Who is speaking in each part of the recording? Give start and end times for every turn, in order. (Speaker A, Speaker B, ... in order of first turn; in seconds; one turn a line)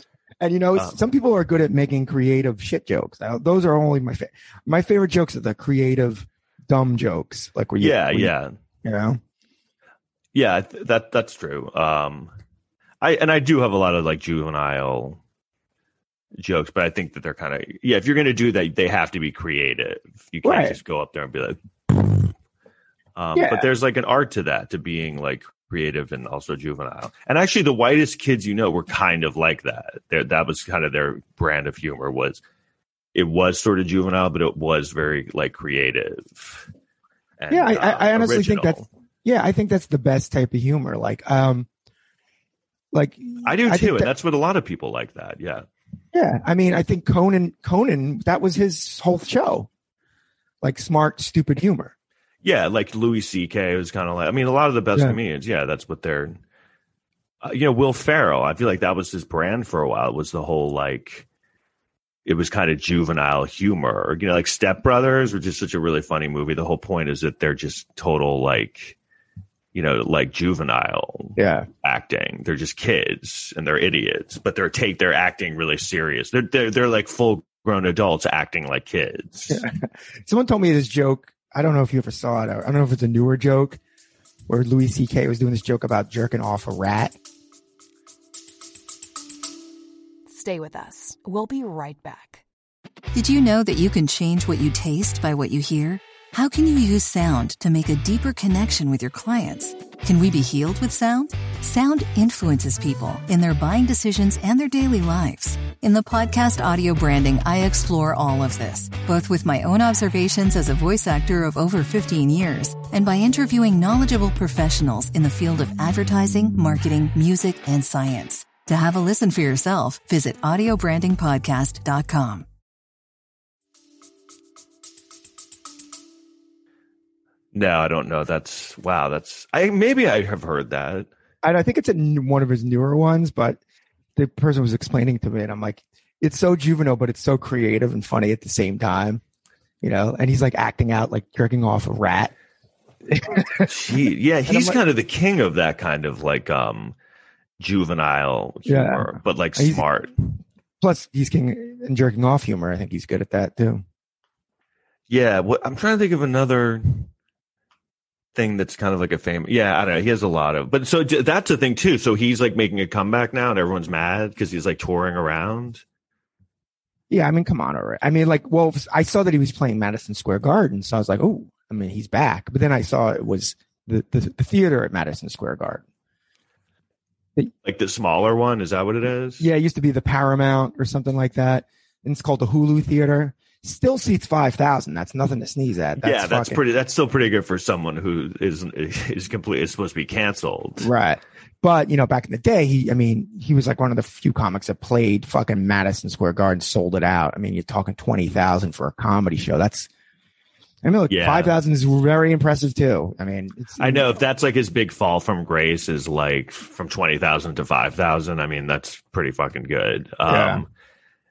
Speaker A: 0.4-8.3
Speaker B: 7.8-8.5
Speaker A: 8.8-9.2
Speaker B: 10.3-12.3
Speaker B: 13.0-15.2
Speaker B: 16.4-22.3
Speaker A: 20.4-20.8
Speaker B: 23.1-32.4
Speaker A: 23.3-23.6
Speaker B: 33.1-36.7
Speaker B: 37.4-38.9
Speaker A: 37.5-41.7
Speaker A: 42.9-44.1
Speaker B: 43.4-45.7
Speaker A: 46.1-49.7
Speaker A: 50.6-51.9
Speaker B: 52.4-56.4
Speaker B: 57.4-61.2
Speaker B: 62.2-69.0
Speaker B: 69.7-79.6
Speaker A: 71.4-71.7
Speaker A: 79.5-83.8
Speaker A: 84.5-87.2
Speaker C: 90.3-92.4
Speaker D: 93.1-122.5
Speaker B: 127.5-131.1
Speaker A: 131.4-133.6
Speaker A: 134.2-139.2
Speaker A: 139.8-142.3
Speaker A: 143.1-143.7
Speaker B: 143.6-146.9
Speaker A: 144.5-144.8
Speaker B: 147.6-150.1
Speaker A: 148.7-149.8
Speaker A: 150.8-153.8
Speaker B: 155.1-157.1
Speaker B: 158.3-165.8
Speaker A: 167.1-175.8
Speaker B: 177.6-179.4
Speaker A: 179.4-186.6
Speaker B: 186.0-190.9
Speaker A: 190.8-199.9
Speaker A: 200.8-204.2
Speaker B: 201.1-201.5
Speaker B: 203.8-210.7
Speaker A: 210.2-210.6